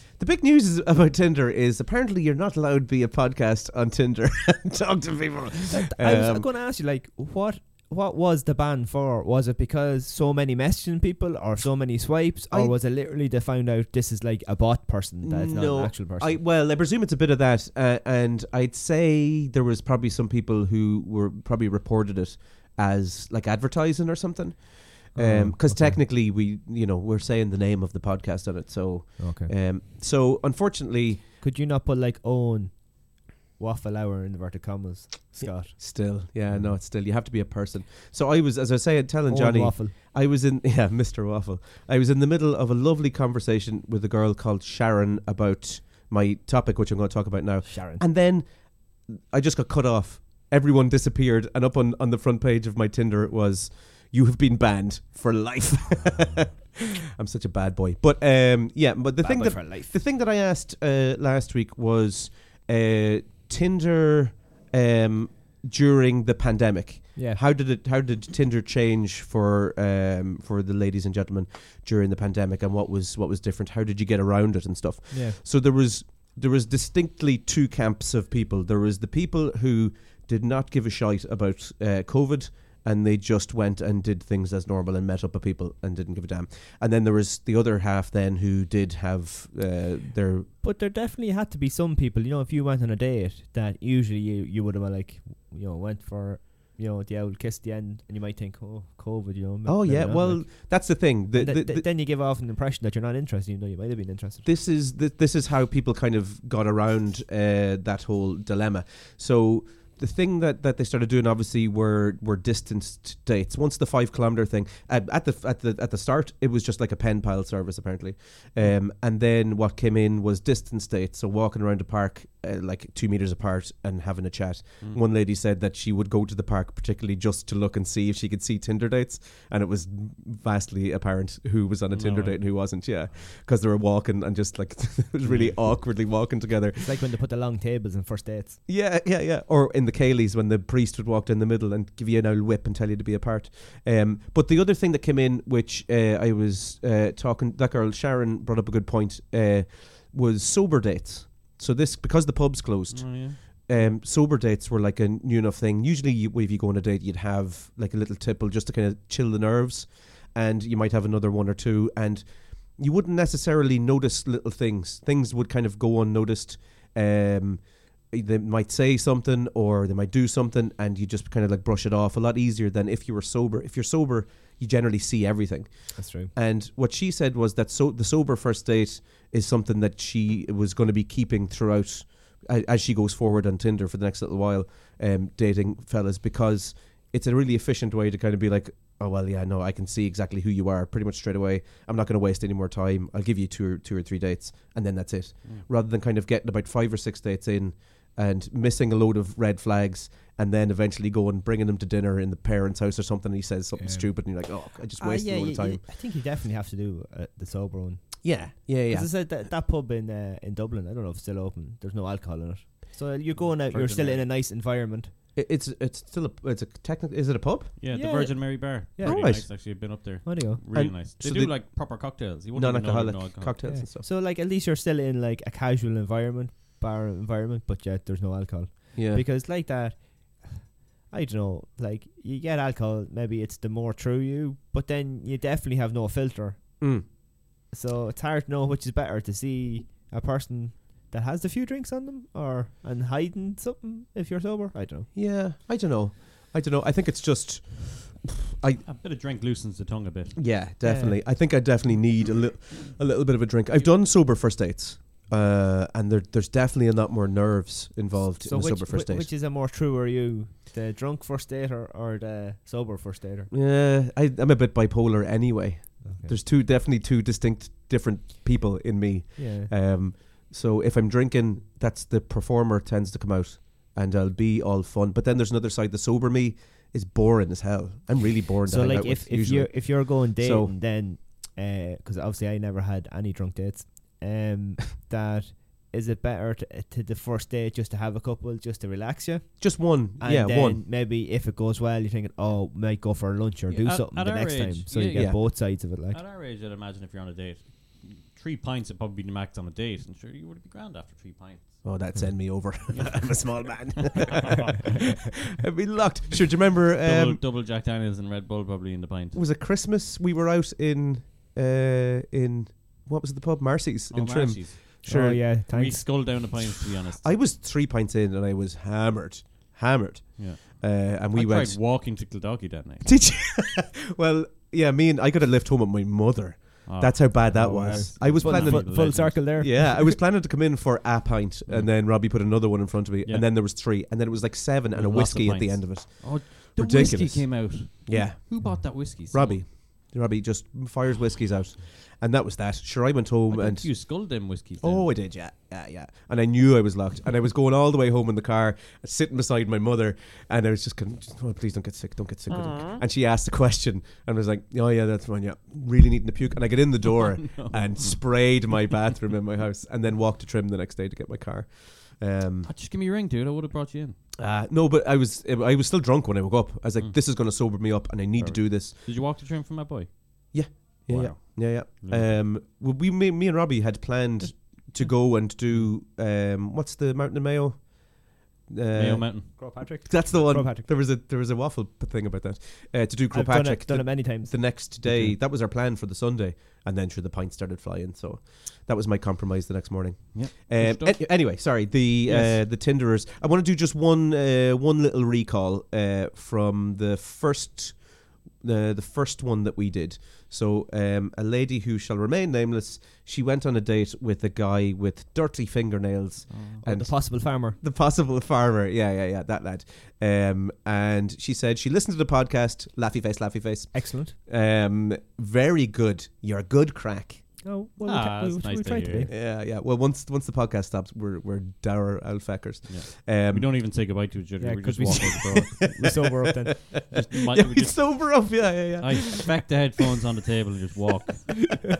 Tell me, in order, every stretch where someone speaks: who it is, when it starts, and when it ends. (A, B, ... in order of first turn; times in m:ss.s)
0:00.1-0:06.4 A
0:05.8-0:16.4 B
0:12.2-0:12.7 A
0:15.2-0:31.2 A
0:25.1-0:26.0 B
0:29.2-0:29.5 B
0:31.4-0:36.8 B
0:35.3-1:30.5 A
0:39.3-0:39.9 B
0:47.6-0:48.0 B
0:59.2-0:59.9 B
1:07.1-1:07.4 B
1:15.1-1:15.4 B
1:30.6-1:44.4 B
1:39.6-1:41.9 A
1:44.4-2:17.0 A
2:11.9-2:13.3 C
2:15.2-2:15.7 B
2:16.8-2:18.6 B
2:18.6-3:25.8 A
2:32.9-2:33.9 C
2:56.0-2:56.3 B
3:23.8-3:35.1 B
3:28.2-3:29.4 A
3:33.3-3:34.3 C
3:35.3-3:37.8 A
3:37.8-3:43.6 C
3:37.9-3:40.6 B
3:39.0-3:44.1 A
3:43.6-4:05.1 B
3:48.9-3:49.2 A
3:56.8-3:57.1 A
4:05.1-4:08.8 A
4:08.8-4:10.6 C
4:10.4-4:19.3 A
4:10.8-4:11.2 B
4:13.7-4:14.0 C
4:18.2-4:23.5 B
4:23.5-4:40.8 A
4:26.0-4:26.4 B
4:29.4-4:29.7 B
4:38.6-4:56.2 B
4:49.6-4:50.8 A
4:53.7-5:02.1 C
4:55.1-4:55.4 A
5:01.8-5:04.9 A
5:02.9-5:05.1 C
5:05.6-5:07.4 A
5:07.0-5:09.4 C
5:09.3-5:15.4 A
5:14.1-5:17.3 C
5:15.0-5:16.0 B
5:17.1-5:21.8 A
5:20.4-5:23.2 C
5:23.0-6:02.7 A
5:26.8-5:29.7 C
5:27.5-5:30.1 B
5:31.7-5:32.4 C
5:33.2-5:33.5 C
5:34.9-5:39.6 C
5:38.6-5:38.9 B
5:43.5-5:45.1 C
5:52.6-5:52.9 C
5:57.0-5:58.2 C
6:02.6-6:04.2 C
6:04.4-6:08.9 A
6:07.0-6:07.8 C
6:08.4-6:12.4 C
6:10.5-6:57.6 A
6:14.4-6:16.0 C
6:18.9-6:19.7 C
6:19.6-6:20.9 B
6:23.3-6:25.3 B
6:25.0-6:25.4 C
6:30.3-6:32.5 C
6:32.3-6:32.6 B
6:46.5-6:46.8 C
6:46.8-6:47.8 B
6:53.9-6:54.3 B
6:57.6-6:59.3 B
6:58.0-6:59.3 C
6:59.3-7:03.7 A
7:02.9-7:06.0 C
7:04.6-7:06.8 B
7:05.1-7:06.2 A
7:06.7-7:09.8 A
7:07.1-7:11.8 C